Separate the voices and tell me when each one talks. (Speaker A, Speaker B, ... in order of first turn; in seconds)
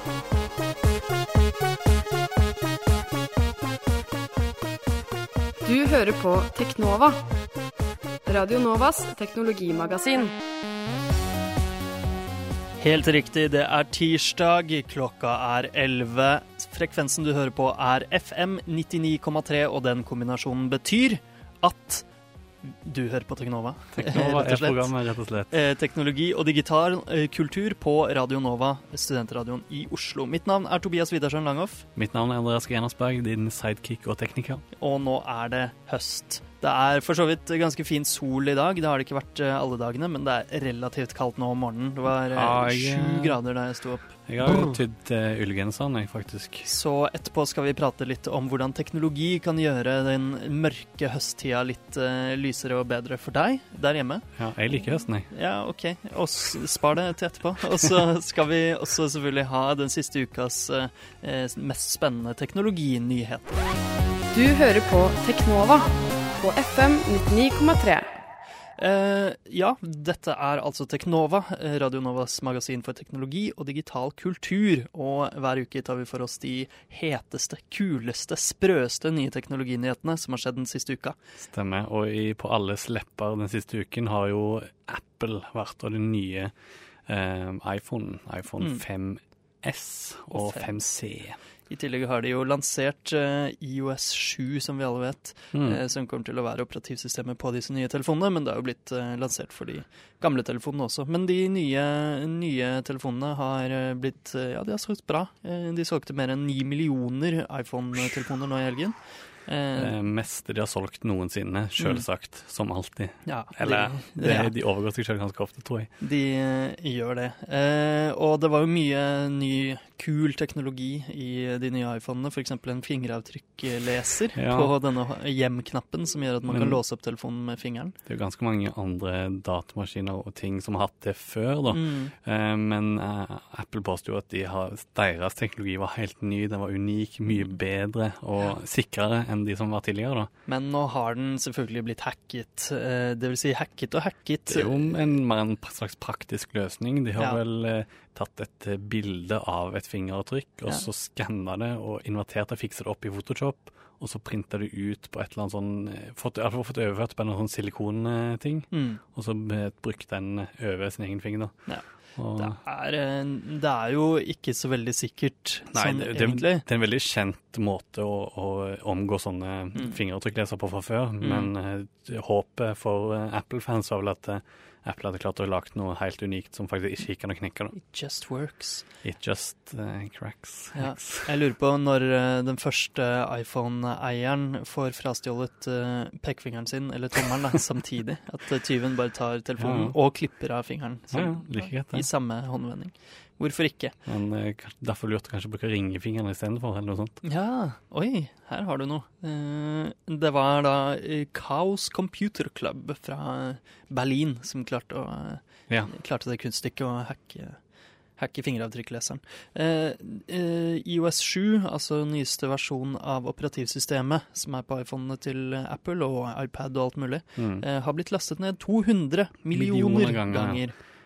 Speaker A: 5.6-7.2, 8.2-10.3, 64.3-68.1
Speaker B: 12.8-22.1, 22.6-24.9, 25.5-31.9, 34.8-44.8, 46.6-54.3, 55.3-63.7, 68.8-81.2, 90.3-90.8, 91.7-109.9, 111.8-112.0, 113.2-114.5, 116.0-127.9, 131.7-132.1, 140.5-145.0, 158.7-159.0, 161.7-166.6, 171.2-171.5, 177.7-178.8, 180.7-193.9, 197.2-207.6, 208.2-220.8
Speaker C: 23.9-25.5, 31.9-34.6, 42.1-43.4, 44.2-46.7, 54.4-55.3, 81.4-86.5, 87.0-91.4, 95.5-95.8, 109.8-115.9, 124.3-124.7, 126.5-126.8, 128.1-140.3, 144.5-162.6, 165.7-177.7, 179.0-181.3, 189.6-190.0, 191.1-192.1, 194.1-197.2, 217.4-217.6, 219.5-220.6